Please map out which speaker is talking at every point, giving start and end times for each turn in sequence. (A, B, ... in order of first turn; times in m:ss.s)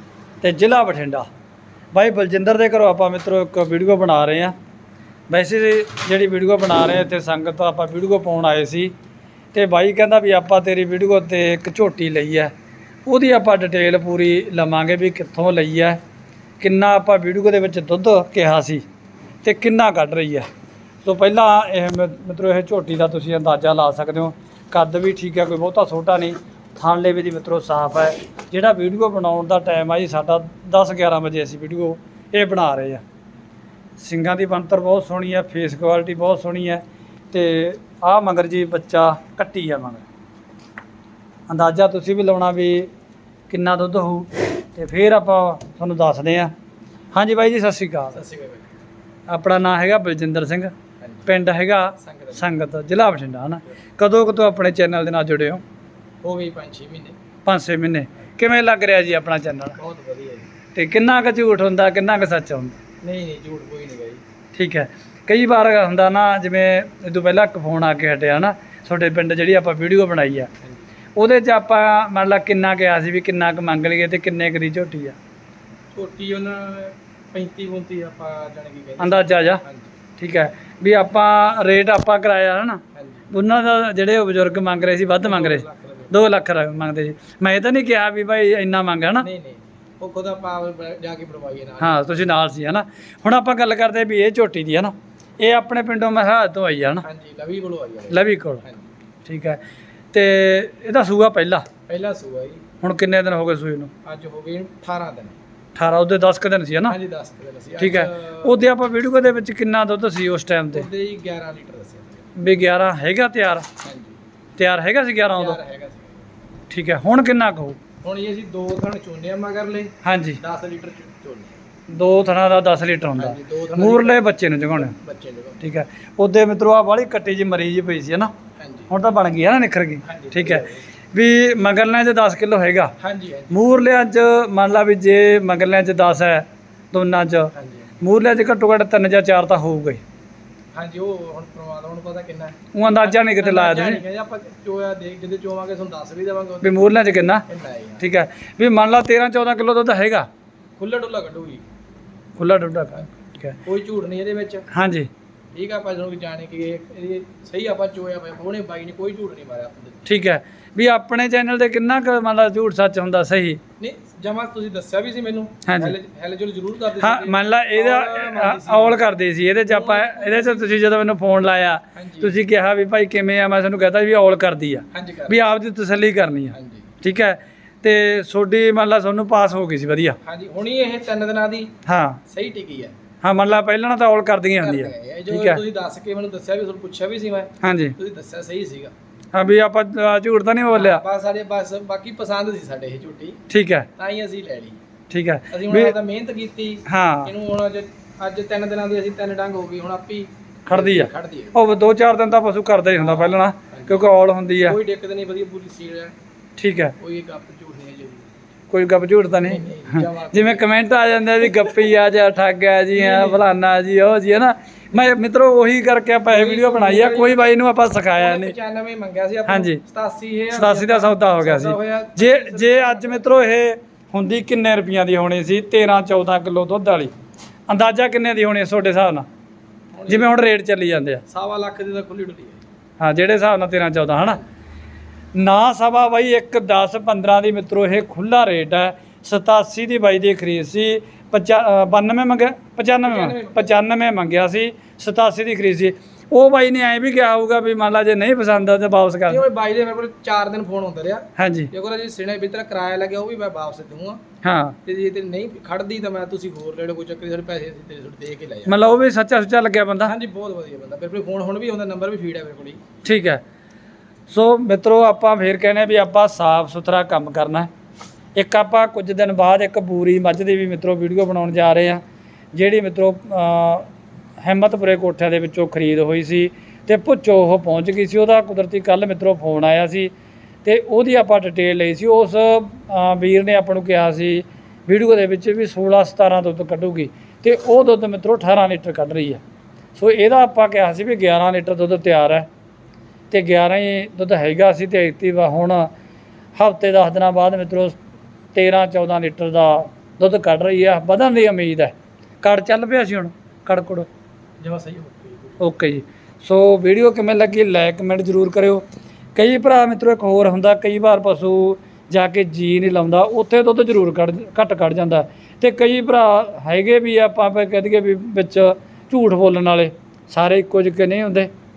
0:00.4-0:01.2 A
0:01.9-0:04.5 A
0:05.3-0:08.9 A
0:09.5-0:12.5 A
0:13.0-0:16.0 A
0:16.6-0:18.8 A
0:19.4-0:20.5 A
0:21.0-0:33.0 A
0:34.0-0:40.0 A
0:41.5-0:42.9 A
0:43.5-0:46.5 A
0:47.1-0:48.2 A
0:48.1-0:48.7 B
0:49.3-0:50.7 A
0:51.0-0:51.3 B
0:51.2-0:55.6 A
0:52.0-0:52.5 B
0:56.2-0:57.2 B
0:57.4-0:59.8 A
0:59.8-1:00.5 B
1:00.7-1:02.8 A
1:03.0-1:04.2 B
1:04.5-1:10.5 A
1:10.6-1:10.9 B
1:11.2-1:15.2 A
1:15.9-1:20.0 B
1:19.0-1:19.6 A
1:20.2-1:29.3 A
1:22.9-1:23.2 B
1:25.2-1:26.2 B
1:29.2-1:32.3 B
1:31.8-1:37.0 A
1:37.0-1:38.9 B
1:38.1-1:38.6 A
1:39.2-1:39.6 A
1:40.1-1:41.6 A
1:41.9-1:42.6 B
1:42.8-1:43.9 A
1:44.0-1:45.4 B
1:45.8-1:47.0 A
1:46.9-1:48.6 B
1:47.8-1:50.8 A
1:50.7-1:52.2 B
1:52.4-1:53.7 A
1:53.8-1:54.2 B
1:54.6-1:55.6 A
1:55.3-1:56.3 B
1:56.7-1:57.8 A
1:58.0-2:01.6 B
2:00.0-2:00.4 A
2:01.9-2:04.9 A
2:03.2-2:05.6 B
2:05.6-2:08.3 A
2:08.6-2:08.9 B
2:08.9-2:12.9 A
2:10.0-2:10.8 B
2:13.0-2:13.6 B
2:13.5-2:20.0 A
2:17.5-2:17.9 B
2:20.7-2:28.0 B
2:22.7-2:24.0 A
2:26.6-2:27.4 A
2:28.0-2:30.3 A
2:30.8-2:31.6 B
2:32.4-2:33.6 A
2:33.6-2:34.7 B
2:34.7-2:35.1 A
2:35.5-2:40.0 B
2:40.0-2:43.6 A
2:43.8-2:49.0 B
2:45.6-2:46.0 A
2:47.0-3:00.2 A
2:49.6-2:50.7 B
2:51.9-2:52.4 B
2:54.9-2:55.4 B
2:56.5-2:56.9 B
3:00.2-3:01.7 B
3:01.8-3:02.2 A
3:02.3-3:02.9 B
3:03.2-3:05.6 A
3:04.6-3:08.9 B
3:07.6-3:08.0 A
3:09.3-3:11.0 A
3:10.7-3:13.4 B
3:13.5-3:13.9 A
3:14.0-3:14.8 B
3:15.1-3:15.9 A
3:15.5-3:21.6 B
3:16.9-3:17.3 A
3:20.7-3:24.8 A
3:22.9-3:26.1 B
3:26.6-3:26.9 A
3:27.0-3:28.4 B
3:28.7-3:38.5 A
3:29.4-3:30.7 B
3:32.9-3:33.4 B
3:36.3-3:37.5 B
3:38.2-3:43.3 B
3:39.5-3:39.8 A
3:40.5-3:47.1 A
3:47.7-3:49.3 A
3:49.9-3:50.3 B
3:50.1-3:51.2 A
3:51.3-3:52.6 B
3:53.0-3:54.4 A
3:55.3-4:09.4 A
4:03.0-4:03.7 B
4:09.3-4:14.2 B
4:11.4-4:11.7 A
4:14.4-4:14.8 A
4:14.8-4:18.8 B
4:18.7-4:20.1 A
4:20.0-4:22.8 B
4:23.0-4:23.4 A
4:24.3-4:27.7 A
4:28.4-4:32.0 A
4:32.5-4:33.9 A
4:34.4-4:40.1 A
4:40.6-4:49.4 A
4:50.0-4:52.5 A
4:53.3-4:55.9 A
4:56.6-4:58.0 A
4:58.5-5:04.1 A
5:04.6-5:05.7 B
5:05.6-5:08.8 A
5:09.3-5:21.5 A